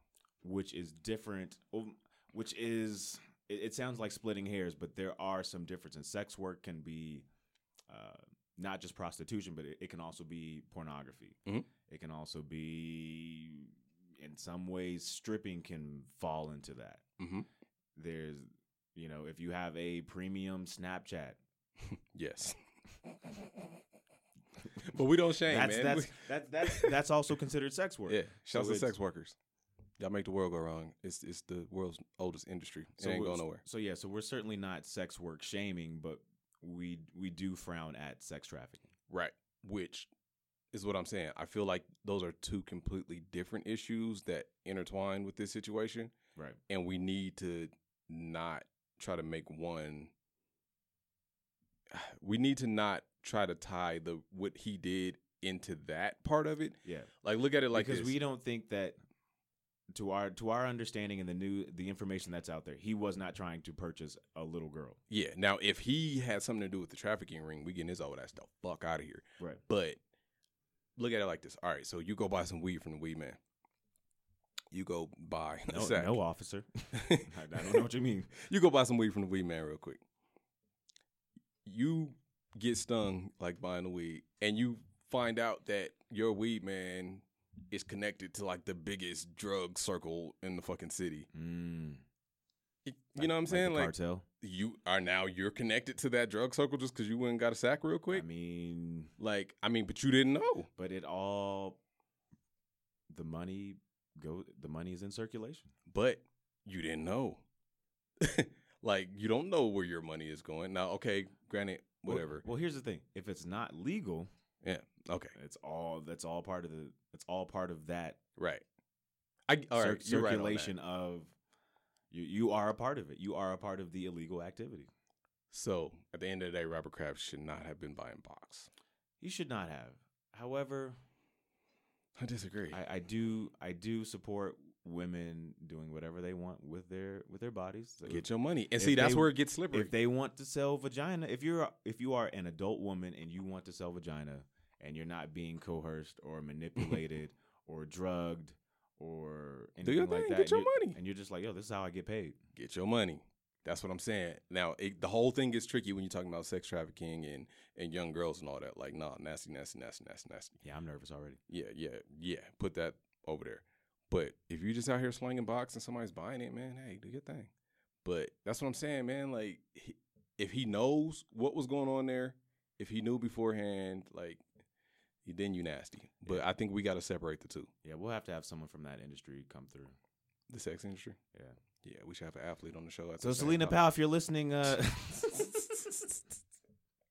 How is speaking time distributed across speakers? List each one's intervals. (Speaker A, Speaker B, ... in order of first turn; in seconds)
Speaker A: 0.4-7.2, 7.9-17.0, 17.9-21.4, 25.4-28.9, 33.0-38.9, 56.8-57.1, 57.7-59.0, 59.9-65.0, 75.7-78.3, 91.3-92.0, 93.2-94.2, 98.1-99.1, 100.8-101.8, 103.1-105.7, 112.0-114.3, 115.3-118.2, 119.7-121.3, 122.1-124.9, 129.2-131.0, 132.7-138.2, 138.8-152.4, 160.6-161.4, 177.8-179.9, 183.2-185.7
Speaker B: 17.2-17.4, 21.9-22.6, 24.8-26.9, 28.1-29.3, 30.0-33.6, 39.1-40.1, 40.7-46.1, 46.7-50.1, 51.9-58.1, 65.1-70.0, 71.0-73.4, 74.7-76.2, 76.9-77.8, 78.3-80.0, 81.6-91.3, 92.8-98.2, 99.2-100.7, 105.9-107.4, 108.2-112.4, 114.6-115.3, 118.4-118.6, 119.5-120.7, 125.5-128.7, 132.2-132.8, 138.1-139.9, 149.8-151.0, 152.5-160.6, 161.5-167.5, 168.0-174.4, 175.2-177.7, 180.5-181.2, 181.8-183.8